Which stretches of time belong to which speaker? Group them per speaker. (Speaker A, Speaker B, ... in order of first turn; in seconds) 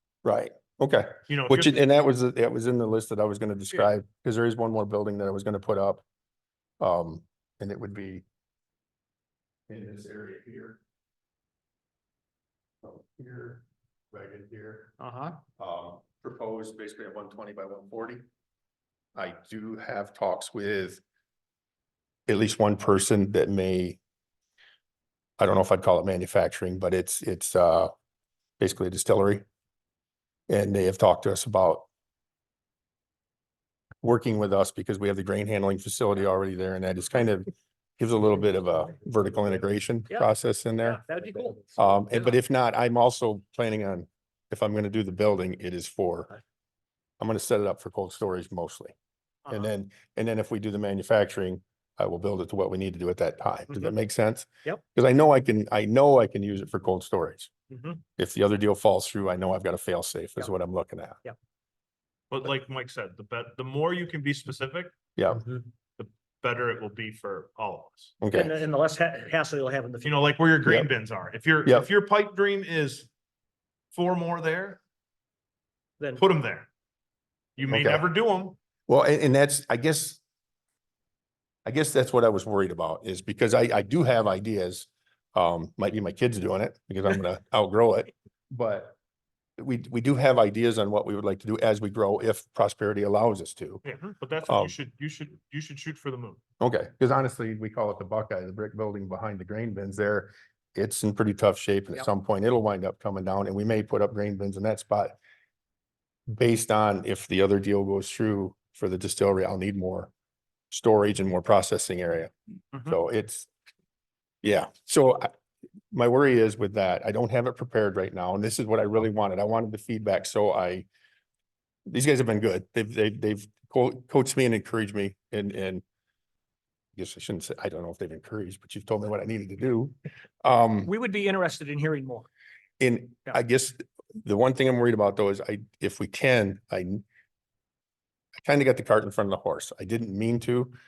Speaker A: 0.2-6.0, 6.8-8.2, 9.7-10.8, 12.8-14.9, 15.6-18.2, 19.1-21.0, 22.3-24.0, 25.4-27.9, 28.6-29.4, 30.5-31.9, 34.0-41.0, 41.8-46.3, 47.2-48.9, 49.5-57.5, 58.2-61.2, 65.2-65.4, 68.2-68.6, 77.7-78.0, 78.9-80.2, 81.6-89.0, 89.6-93.8, 94.5-94.7, 96.6-105.2, 106.3-110.1, 110.7-113.5, 114.4-115.3, 115.9-120.9, 121.9-125.8, 127.0-130.9, 132.8-137.0, 138.4-140.7
Speaker B: 1.3-1.8, 62.3-64.9, 66.0-68.2, 70.0-73.1, 73.9-74.8, 76.1-76.7, 77.6-78.6, 93.8-96.4
Speaker C: 15.0-15.4, 40.8-42.3, 57.7-58.0, 68.3-70.2, 130.8-132.3